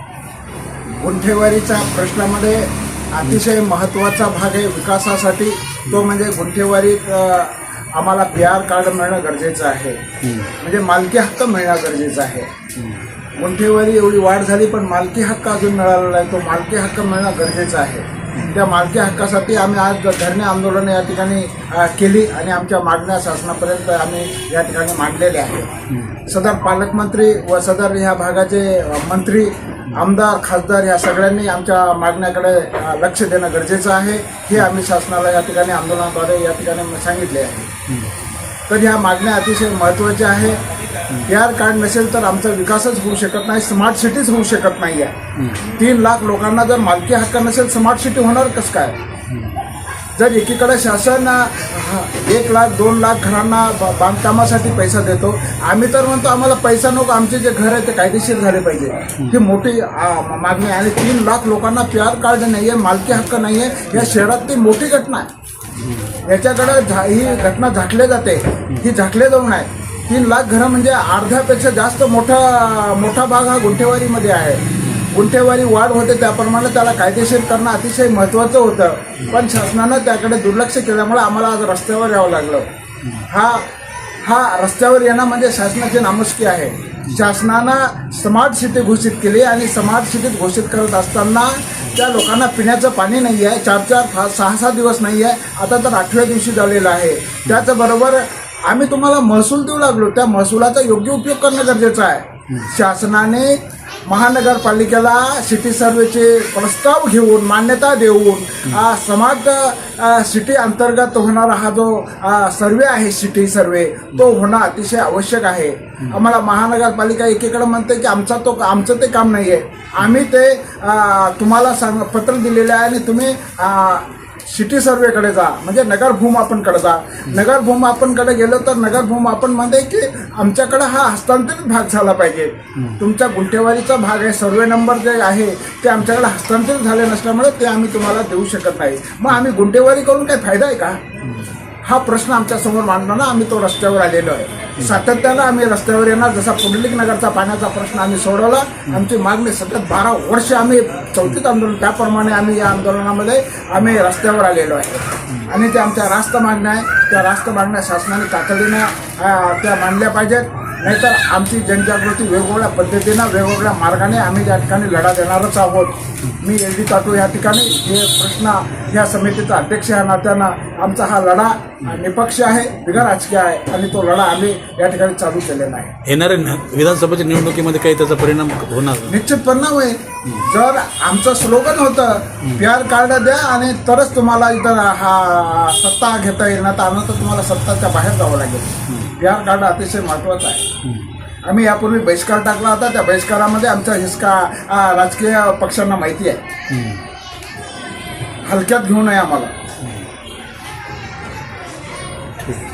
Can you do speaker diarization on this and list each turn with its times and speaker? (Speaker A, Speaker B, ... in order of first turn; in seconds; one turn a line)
Speaker A: 0.9-10.0
Speaker B: 10.2-10.5
Speaker A: 10.6-12.5
Speaker A: 13.3-25.7
Speaker A: 26.2-37.7
Speaker A: 38.7-40.6
Speaker A: 41.2-49.0
Speaker B: 49.3-49.6
Speaker A: 50.1-65.3
Speaker B: 65.8-66.2
Speaker A: 66.2-82.7
Speaker A: 83.3-83.7
Speaker A: 84.2-141.0
Speaker B: 141.2-141.5
Speaker A: 141.8-175.9
Speaker B: 176.0-179.2
Speaker A: 179.1-190.7
Speaker B: 190.8-191.1
Speaker A: 191.4-196.4
Speaker B: 196.7-197.0
Speaker A: 198.4-199.5